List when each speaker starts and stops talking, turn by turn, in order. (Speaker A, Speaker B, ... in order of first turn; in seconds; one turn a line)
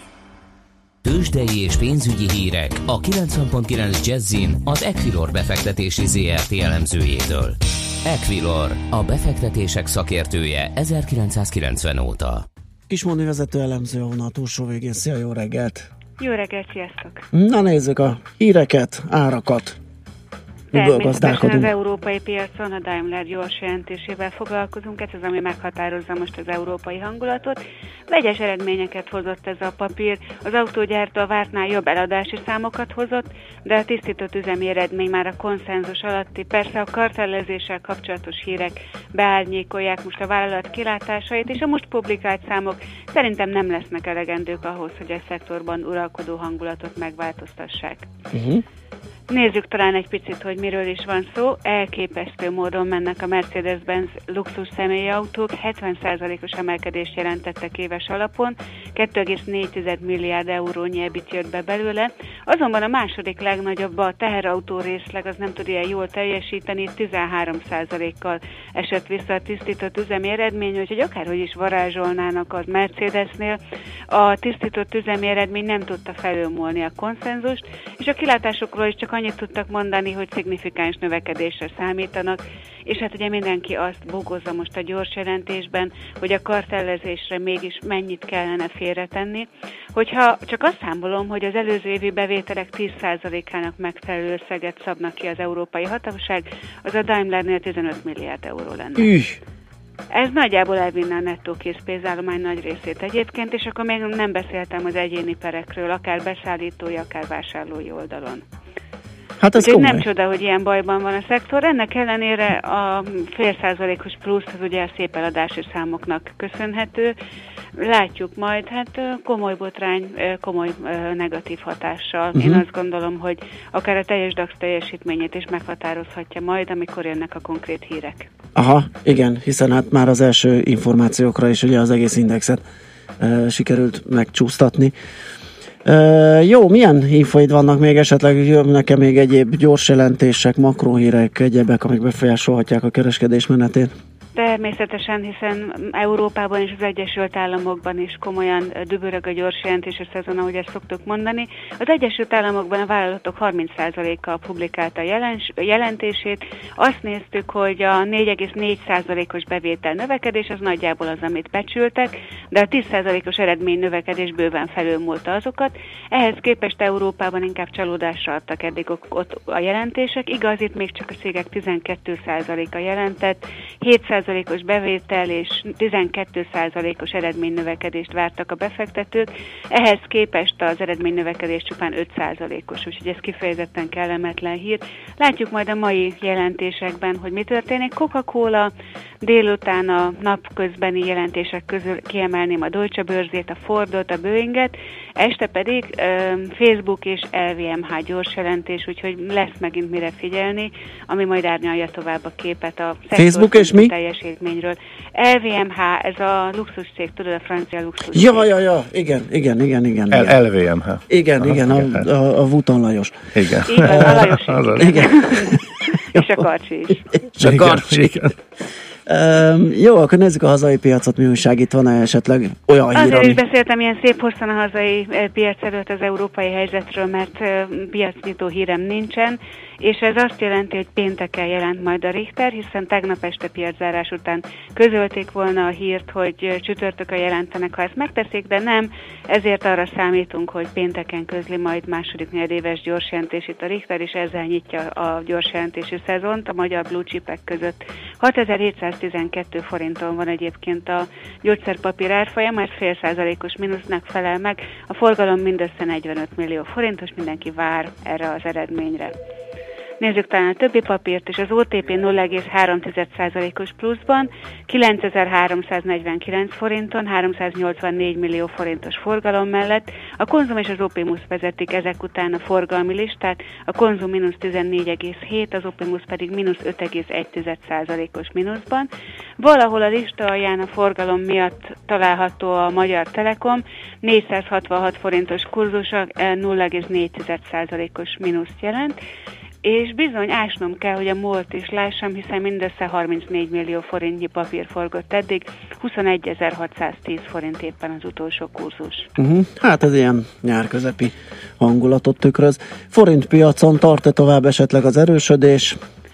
Speaker A: 1.0-12.4
Speaker B: 12.9-15.9
Speaker C: 16.2-17.2
Speaker B: 17.3-19.8
Speaker C: 20.7-48.1
Speaker B: 20.7-21.7
Speaker B: 48.3-48.6
Speaker C: 49.3-73.6
Speaker C: 74.1-99.1
Speaker B: 99.0-99.4
Speaker C: 100.1-108.4
Speaker B: 109.4-110.0
Speaker C: 109.6-117.2
Speaker C: 117.8-128.3
Speaker B: 122.3-122.6
Speaker B: 128.6-132.6
Speaker B: 133.2-134.9
Speaker B: 135.8-143.9
Speaker C: 144.4-208.5
Speaker B: 203.2-203.9
Speaker B: 208.1-210.4
Speaker D: 210.1-212.1
Speaker B: 211.1-216.3
Speaker D: 213.3-214.9
Speaker C: 213.7-217.2
Speaker B: 217.1-218.3
Speaker D: 217.4-218.3
Speaker B: 219.1-223.4
Speaker C: 222.9-259.1
Speaker C: 260.0-289.0
Speaker C: 289.6-299.1
Speaker B: 299.2-305.8